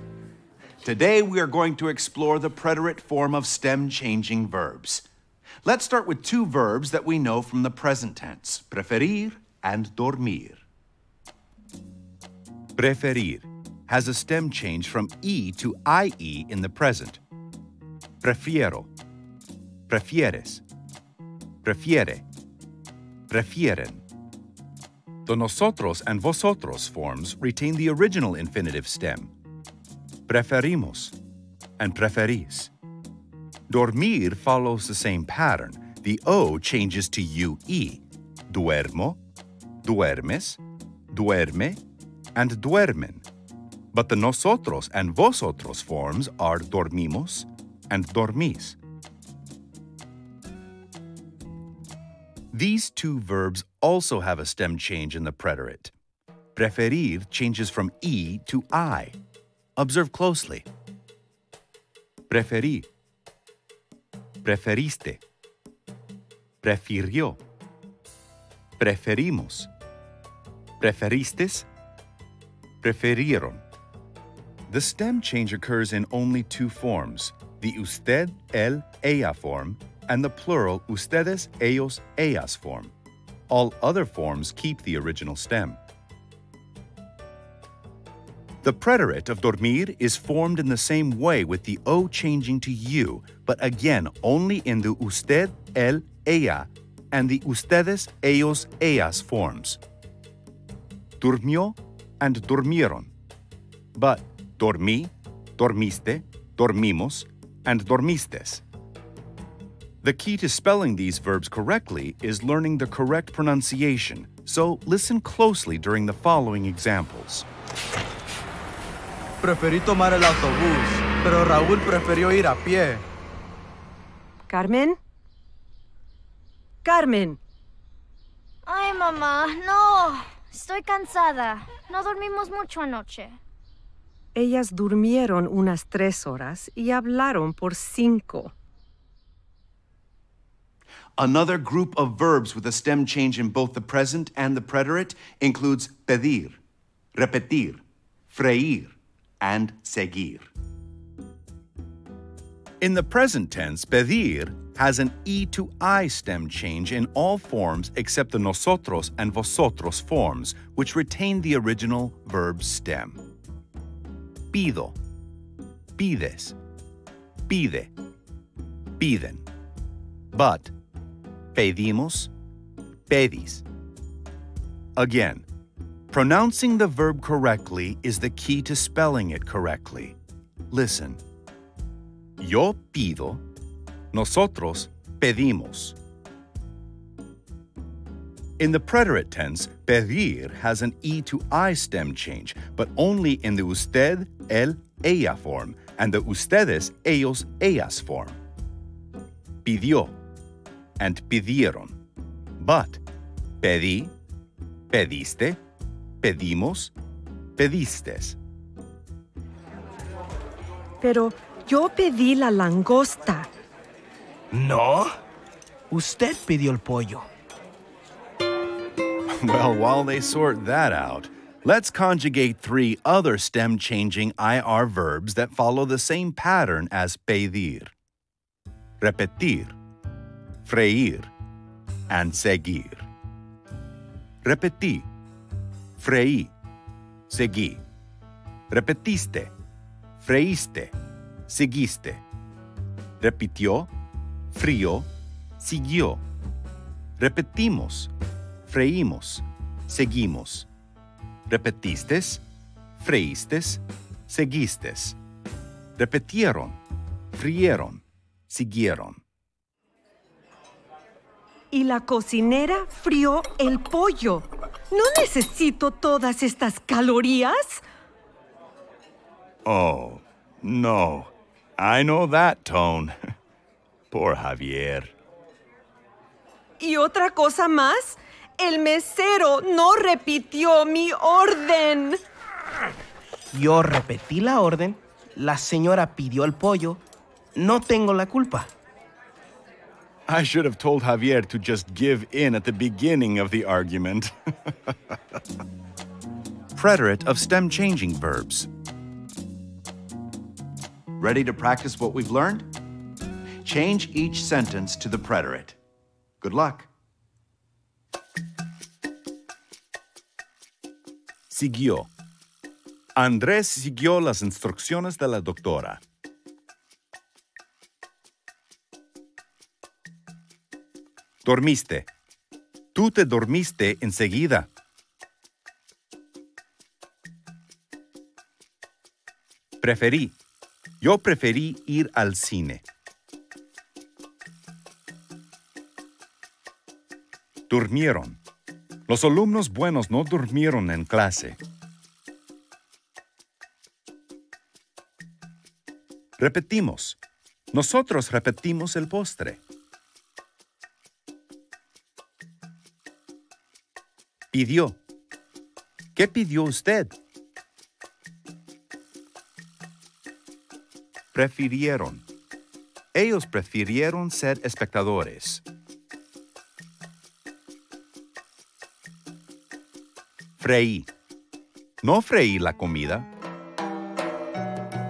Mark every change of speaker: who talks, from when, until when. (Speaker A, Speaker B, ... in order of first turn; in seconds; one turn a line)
Speaker A: 0.8-5.0
Speaker A: 5.6-10.6
Speaker A: 12.8-17.2
Speaker A: 18.2-18.9
Speaker A: 19.9-20.6
Speaker A: 21.6-22.2
Speaker A: 23.3-24.0
Speaker A: 25.3-29.3
Speaker A: 30.3-31.1
Speaker A: 31.8-32.7
Speaker A: 33.7-39.2
Speaker A: 39.8-40.6
Speaker A: 41.1-41.8
Speaker A: 42.4-43.2
Speaker A: 43.9-48.8
Speaker A: 52.5-55.9
Speaker A: 56.6-59.2
Speaker A: 59.8-60.7
Speaker A: 62.3-62.9
Speaker A: 64.4-65.2
Speaker A: 66.6-67.4
Speaker A: 68.8-69.7
Speaker A: 70.8-71.7
Speaker A: 72.8-73.6
Speaker A: 74.7-82.9
Speaker A: 83.5-85.8
Speaker A: 88.6-99.8
Speaker A: 101.2-103.1
Speaker A: 104.0-108.6
Speaker A: 110.0-117.5
Speaker B: 119.4-123.0
Speaker C: 124.5-125.0
Speaker C: 126.8-127.4
Speaker D: 128.7-133.4
Speaker C: 134.3-138.5
Speaker A: 141.2-146.6
Speaker A: 147.2-150.5
Speaker A: 152.8-163.2
Speaker A: 164.5-165.0
Speaker A: 166.0-166.6
Speaker A: 167.5-167.9
Speaker A: 169.0-169.4
Speaker A: 170.3-170.7
Speaker A: 171.5-172.3
Speaker A: 173.1-173.7
Speaker A: 175.0-175.5
Speaker A: 176.1-180.2
Speaker A: 180.7-181.2
Speaker A: 182.4-183.4
Speaker A: 184.1-186.0
Speaker A: 188.6-198.4
Speaker A: 199.6-200.2
Speaker A: 201.0-202.0
Speaker A: 202.6-203.0
Speaker A: 203.6-204.1
Speaker A: 204.9-205.6
Speaker A: 206.2-206.9
Speaker A: 207.6-208.4
Speaker C: 211.0-213.5
Speaker E: 214.5-215.1
Speaker E: 215.9-217.3
Speaker A: 219.3-227.9
Speaker A: 229.0-229.8
Speaker A: 230.7-231.3
Speaker A: 232.1-233.1
Speaker A: 234.4-235.1
Speaker A: 236.0-236.5
Speaker A: 237.3-237.8
Speaker A: 238.7-239.5
Speaker A: 240.2-240.9
Speaker A: 241.5-242.2
Speaker A: 243.2-243.9
Speaker A: 244.5-246.2
Speaker A: 247.2-248.1
Speaker A: 248.7-250.7
Speaker A: 251.5-252.4
Speaker A: 253.0-255.2
Speaker A: 256.0-256.8
Speaker A: 257.3-259.2
Speaker C: 261.7-267.8
Speaker A: 269.7-273.1
Speaker A: 274.1-275.1
Speaker C: 276.8-282.2
Speaker E: 283.5-287.0
Speaker E: 287.6-288.7
Speaker A: 290.3-294.9
Speaker A: 296.8-298.7
Speaker A: 301.2-302.7
Speaker A: 303.6-305.8
Speaker A: 306.4-306.9
Speaker A: 311.5-312.1
Speaker A: 313.2-316.0
Speaker A: 321.4-322.1
Speaker A: 322.9-324.7
Speaker A: 329.8-330.4
Speaker A: 331.0-332.8
Speaker A: 337.7-338.4
Speaker A: 339.1-341.6
Speaker A: 346.4-347.2
Speaker A: 347.7-349.6
Speaker A: 354.5-355.0
Speaker A: 356.1-357.1
Speaker A: 361.3-362.3
Speaker A: 363.1-365.6
Speaker A: 370.6-371.1
Speaker A: 372.0-373.3